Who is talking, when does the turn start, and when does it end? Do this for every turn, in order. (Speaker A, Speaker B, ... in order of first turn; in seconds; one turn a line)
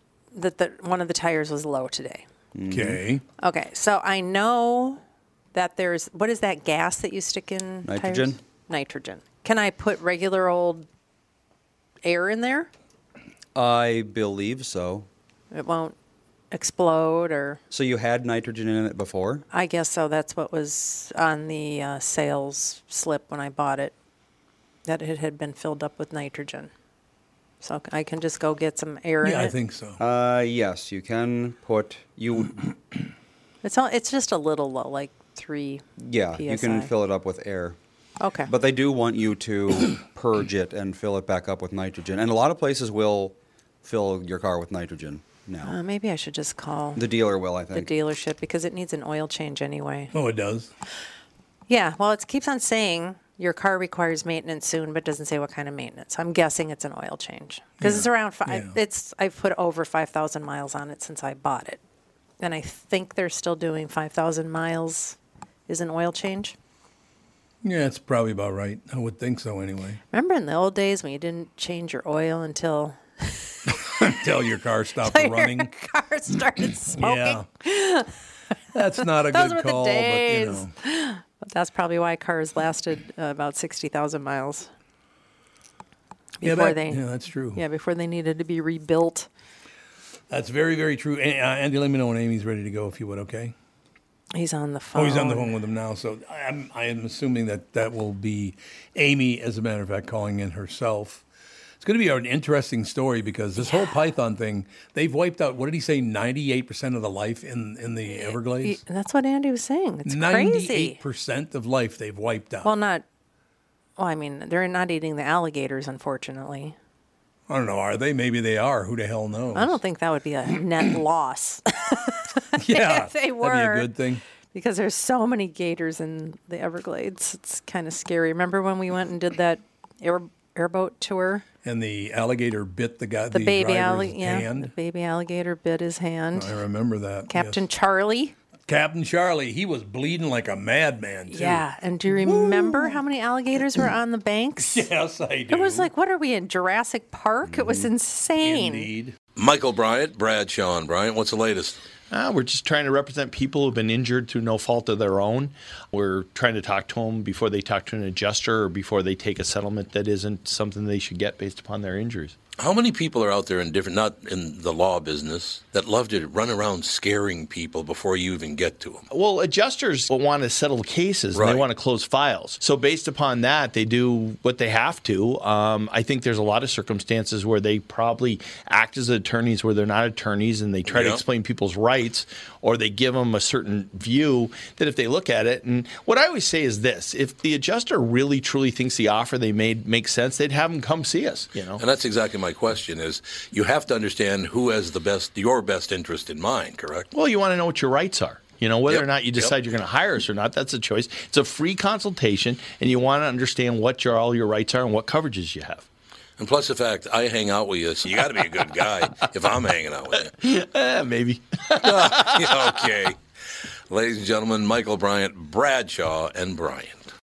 Speaker A: 0.3-2.2
Speaker B: 2.5-3.0
Speaker C: 2.7-3.2
Speaker A: 3.4-5.0
Speaker A: 5.5-10.8
Speaker B: 7.8-8.4
Speaker A: 12.0-12.7
Speaker B: 13.5-15.1
Speaker A: 15.5-15.9
Speaker A: 16.5-17.6
Speaker B: 17.7-19.4
Speaker A: 19.5-23.9
Speaker A: 24.9-26.7
Speaker A: 27.6-29.5
Speaker C: 29.2-30.0
Speaker B: 30.0-32.6
Speaker A: 33.6-35.8
Speaker B: 36.0-37.8
Speaker A: 36.4-36.9
Speaker A: 38.2-38.5
Speaker B: 38.5-45.7
Speaker A: 45.6-47.1
Speaker B: 46.9-47.9
Speaker A: 47.7-50.1
Speaker C: 50.1-50.7
Speaker A: 51.7-61.8
Speaker C: 57.8-58.8
Speaker A: 62.4-65.2
Speaker A: 65.7-66.5
Speaker C: 67.6-70.0
Speaker A: 70.1-74.1
Speaker C: 73.7-75.7
Speaker A: 75.0-78.1
Speaker C: 77.0-77.5
Speaker C: 78.7-80.7
Speaker A: 79.0-84.7
Speaker A: 86.4-89.3
Speaker C: 86.4-87.6
Speaker C: 90.3-93.5
Speaker A: 94.3-95.5
Speaker C: 94.9-101.2
Speaker C: 101.8-108.8
Speaker A: 103.6-104.0
Speaker A: 108.1-111.0
Speaker C: 110.0-112.7
Speaker A: 112.6-113.0
Speaker A: 114.0-116.7
Speaker C: 117.5-119.8
Speaker A: 119.5-123.9
Speaker C: 122.5-124.2
Speaker A: 124.5-131.4
Speaker C: 131.6-134.7
Speaker A: 133.3-136.6
Speaker C: 136.3-137.6
Speaker A: 137.3-138.3
Speaker C: 138.7-143.0
Speaker A: 141.3-144.9
Speaker C: 144.6-145.9
Speaker A: 145.5-148.9
Speaker B: 147.4-147.9
Speaker C: 148.4-149.2
Speaker D: 149.3-151.8
Speaker E: 152.1-162.3
Speaker D: 162.6-169.1
Speaker E: 169.1-191.8
Speaker D: 171.3-171.6
Speaker D: 180.9-181.2
Speaker D: 191.8-197.1
Speaker E: 197.1-205.9
Speaker D: 198.8-199.5
Speaker D: 206.4-210.3
Speaker E: 210.3-212.7
Speaker D: 211.8-213.2
Speaker D: 213.9-217.1